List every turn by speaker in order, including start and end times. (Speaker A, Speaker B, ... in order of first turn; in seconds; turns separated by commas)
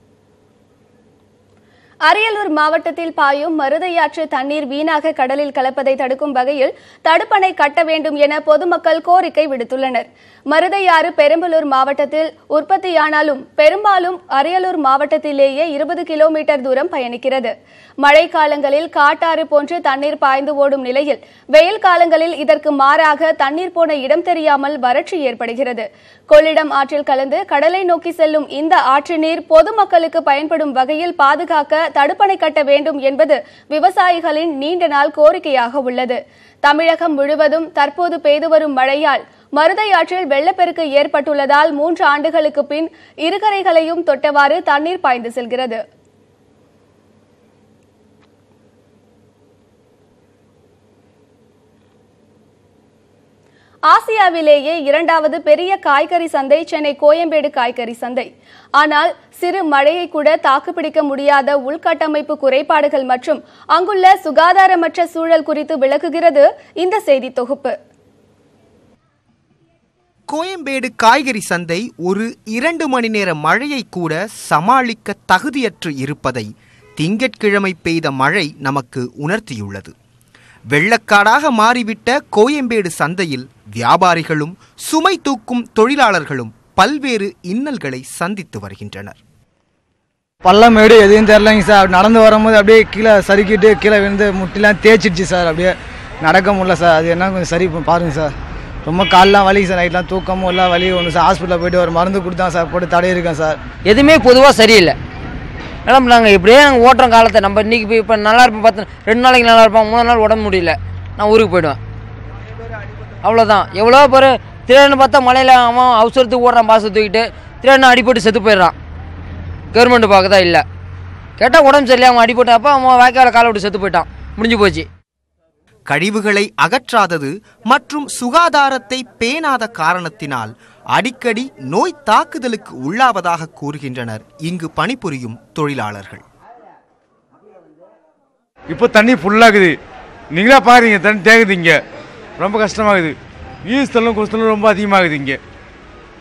Speaker A: 2.1-45.8, Speaker A: 53.9-67.8, Speaker B: 70.3-76.5, Speaker B: 77.0-79.9, Speaker B: 80.7-89.2, Speaker C: 90.4-98.3, Speaker C: 98.8-103.6, Speaker D: 103.8-105.0, Speaker D: 105.8-111.8, Speaker D: 113.2-118.7, Speaker D: 119.7-120.6, Speaker D: 121.4-124.9, Speaker B: 125.9-136.2, Speaker E: 138.7-139.7, Speaker E: 140.3-141.8, Speaker E: 142.4-143.1, Speaker E: 143.7-145.4